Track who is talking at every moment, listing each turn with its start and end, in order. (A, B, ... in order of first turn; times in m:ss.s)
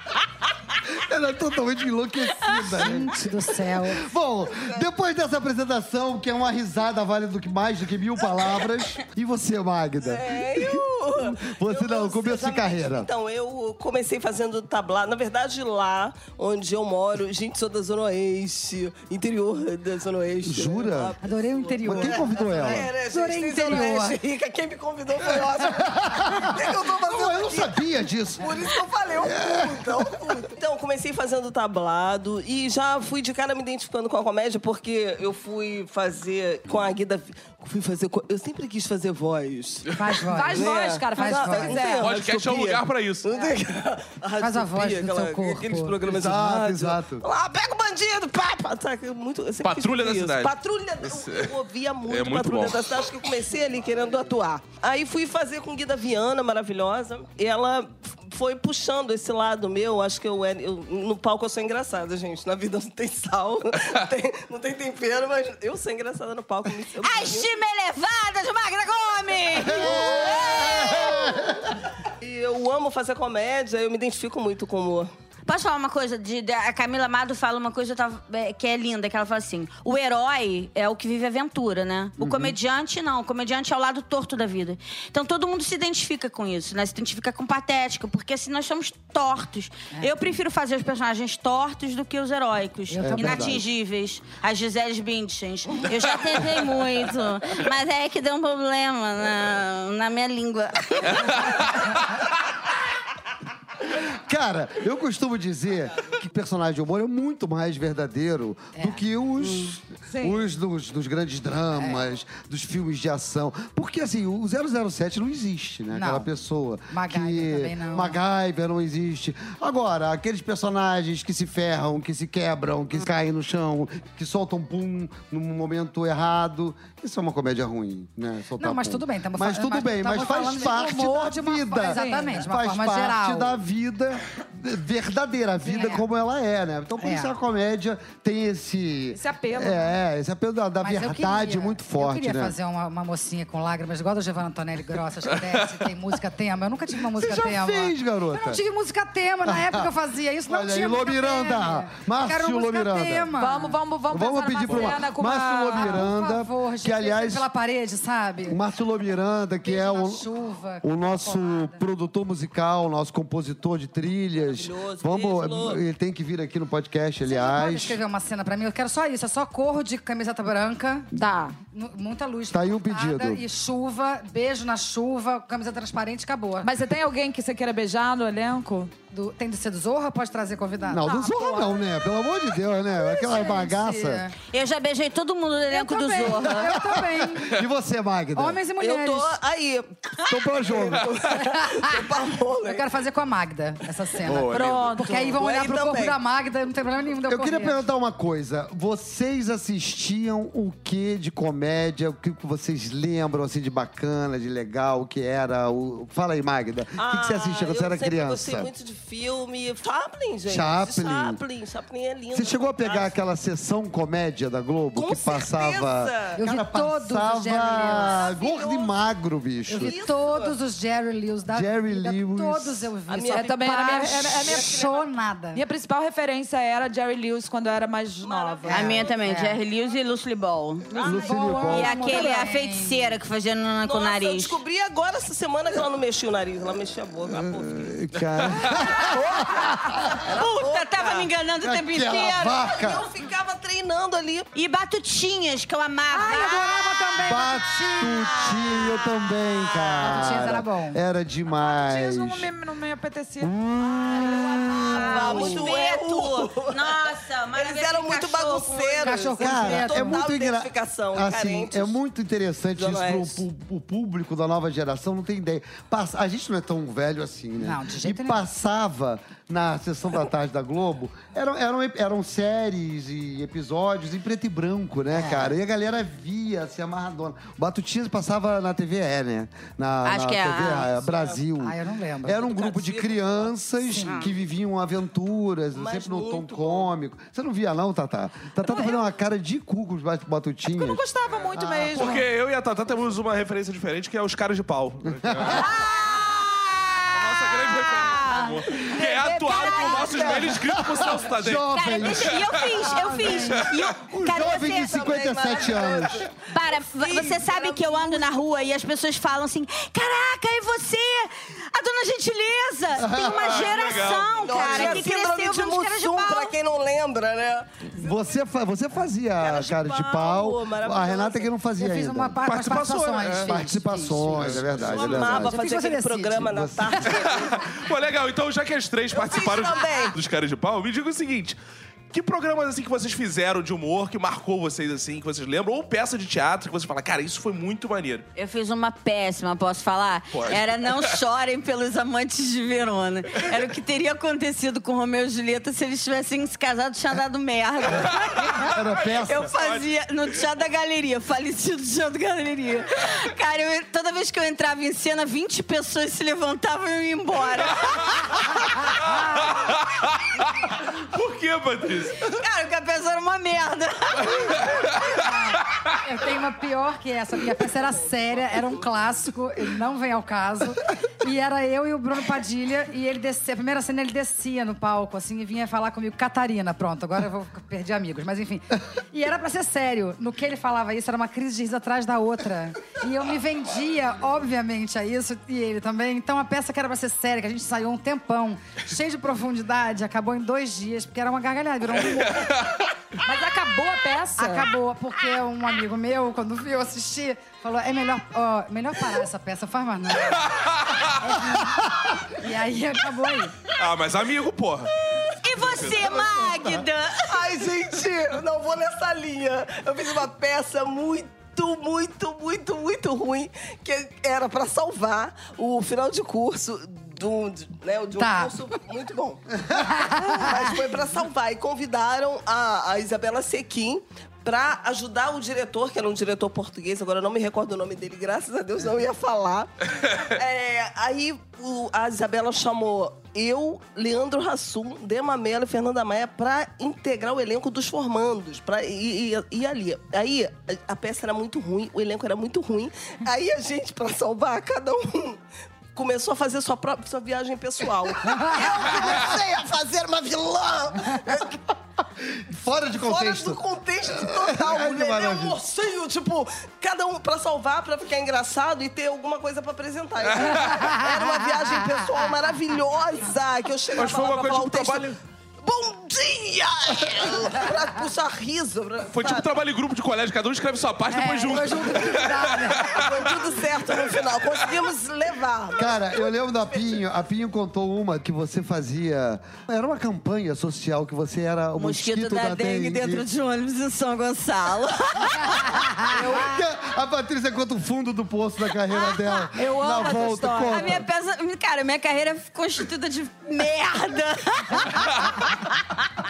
0:00.9-0:03.1 A
0:02.4-0:02.8 B
0:02.8-0:04.1 C
0:03.8-0:13.1 A
0:04.6-0:04.8 D
0:10.0-0:27.8 D
0:20.4-0:21.1 A
0:21.2-0:24.2 C
0:21.8-0:22.9 A
0:25.3-0:30.4 A
0:28.4-0:40.0 D
0:40.0-0:41.8 C
0:40.3-0:42.1 E
0:40.5-1:07.5 D
0:42.0-0:43.4 F
0:44.4-0:46.0 C
0:46.1-0:47.2 A
0:49.6-0:51.5 F
0:52.1-0:53.0 F
1:07.0-1:11.4 B
1:09.7-1:11.7 A
1:09.8-1:11.2 D
1:12.2-1:15.1 D
1:15.5-1:41.7 B
1:22.2-1:22.6 A
1:32.9-1:33.6 C
1:33.0-1:33.6 A
1:44.3-2:22.6 A
1:48.8-1:49.0 C
1:50.1-1:50.4 E
1:51.8-1:52.0 C
1:55.9-1:56.3 C
1:56.9-1:58.2 C
2:08.6-2:13.6 C
2:11.9-2:12.4 E
2:15.6-2:16.0 C
2:17.0-2:17.4 C
2:19.1-2:19.9 E
2:20.8-2:33.8 C
2:27.2-2:28.6 A
2:29.5-2:29.9 A
2:30.5-2:33.3 A
2:33.4-2:36.0 E
2:34.1-2:37.5 A
2:35.7-2:38.6 C
2:38.5-2:40.3 A
2:39.6-2:41.8 C
2:40.8-2:48.0 A
2:44.4-2:45.8 D
2:47.2-2:51.1 C
2:51.1-2:51.6 E
2:51.6-2:56.7 C
2:52.5-2:53.4 A
2:56.6-2:58.9 E
2:59.1-3:01.3 C
3:00.9-3:04.2 A
3:01.1-3:01.7 E
3:03.0-3:04.4 C
3:04.4-3:06.8 B
3:05.7-3:07.6 C
3:06.6-3:08.6 A
3:08.4-3:09.4 C
3:08.8-3:12.9 D
3:10.3-3:11.1 A
3:11.4-3:12.0 C
3:12.6-3:17.8 C
3:14.3-3:15.0 F
3:14.6-3:14.9 E
3:15.0-3:16.2 D
3:17.3-3:28.7 A
3:27.0-3:33.2 D
3:30.5-3:31.4 A
3:32.3-3:40.0 A
3:35.0-3:36.4 D
3:36.4-3:38.2 C
3:37.8-3:38.9 D
3:39.7-3:45.6 C
3:39.7-3:40.6 D
3:41.5-3:42.9 A
3:43.1-3:45.0 D
3:43.3-3:44.9 E
3:45.5-3:49.0 E
3:48.2-3:49.2 D
3:48.7-3:49.6 C
3:48.7-3:54.6 B
3:50.9-3:52.1 A
3:51.0-3:53.2 C
3:53.8-3:57.9 D
3:57.3-4:00.2 A
3:58.7-3:59.7 D
4:00.2-4:01.3 D
4:00.3-4:02.6 B
4:01.6-4:03.1 A
4:02.6-4:04.5 D
4:04.6-4:09.9 B
4:06.1-4:08.8 C
4:07.2-4:12.5 A
4:10.0-4:11.0 C
4:11.6-4:13.6 E
4:13.4-4:15.6 A
4:14.1-4:19.3 B
4:14.8-4:22.0 D
4:19.0-4:20.2 C
4:19.4-4:51.0 A
4:22.8-4:23.4 D
4:27.6-4:28.4 C
4:35.1-4:35.5 C
4:40.0-4:40.9 B
4:41.0-4:41.4 D
4:41.6-4:42.5 C
4:42.4-4:43.6 D
4:43.8-4:44.2 C
4:44.0-4:44.3 B
4:45.8-4:46.9 D
4:50.7-4:52.2 E
4:51.6-4:52.2 A
4:51.9-4:55.7 F
4:55.2-4:55.6 A
4:55.5-5:00.4 B
4:57.1-5:02.9 F
4:59.0-5:00.4 E
5:00.5-5:02.5 A
5:01.6-5:05.0 B
5:02.9-5:03.6 C
5:03.4-5:03.9 F
5:04.0-5:06.3 A
5:04.3-5:08.4 D
5:06.5-5:16.6 B
5:13.0-5:13.7 A
5:13.2-5:15.1 F
5:14.4-5:18.1 D
5:18.0-5:22.4 A
5:19.4-5:21.5 D
5:21.8-5:24.6 C
5:22.4-5:23.5 F
5:23.4-5:25.6 A
5:24.5-5:24.8 F
5:24.8-5:27.8 D
5:25.3-5:26.6 C
5:26.4-5:27.2 A
5:27.1-5:31.6 F
5:29.1-5:30.2 D
5:32.1-5:38.3 F
5:38.4-5:48.7 B
5:40.3-5:41.2 F
5:48.1-5:49.9 F
5:48.6-5:49.5 A
5:49.2-5:58.4 B
5:59.0-5:59.4 C
5:59.1-6:02.3 F
6:02.2-6:04.6 B
6:05.1-6:32.6 C
6:07.6-6:08.9 D
6:32.2-6:32.8 F
6:33.2-6:34.7 E
6:34.4-6:40.5 C
6:40.3-6:41.2 F
6:41.2-6:43.6 C
6:43.8-6:44.9 F
6:45.4-6:47.5 B
6:45.6-6:46.2 F
6:47.3-7:25.4 D
6:58.2-6:58.5 C
6:59.7-7:00.6 C
7:26.0-7:31.6 D
7:28.3-7:28.6 C
7:32.2-7:35.6 A
7:33.0-7:49.5 D
7:44.0-7:45.2 F
7:49.1-7:53.4 F
7:51.1-7:53.0 C
7:52.9-7:57.0 D
7:55.8-8:03.3 A
8:01.8-8:06.3 B
8:06.2-8:11.1 A
8:06.2-8:06.5 E
8:08.9-8:16.1 B
8:09.6-8:10.8 E